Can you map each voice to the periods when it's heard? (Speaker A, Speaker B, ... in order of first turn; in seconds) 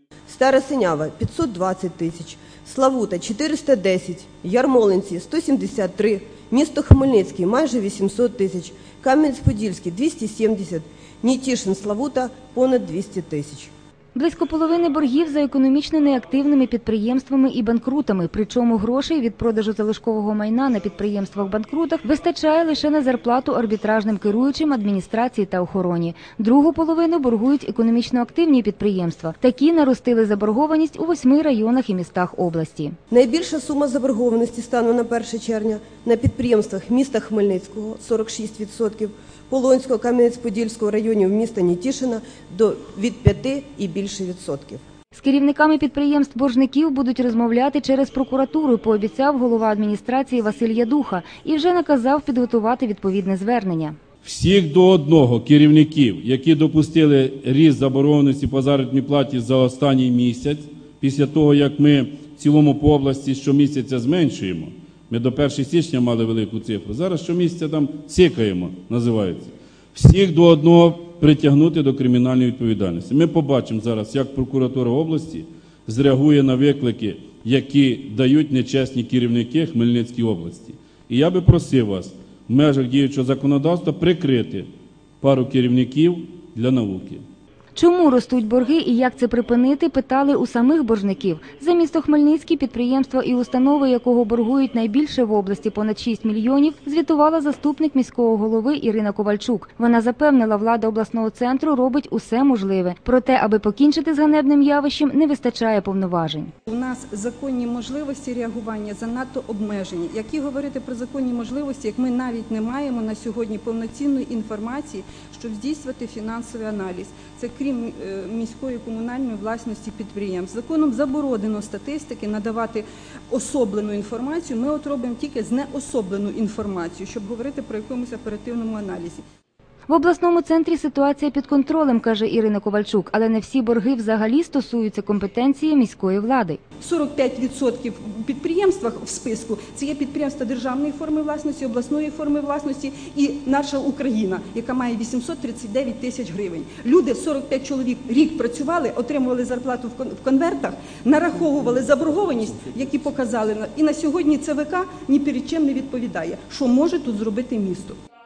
Speaker A: 0.3-13.7, 33.1-44.8
Speaker B: 14.1-33.0, 45.1-54.0, 87.7-106.5, 129.9-136.6
Speaker C: 54.2-84.7, 85.2-87.2
Speaker D: 106.7-129.2, 136.8-158.0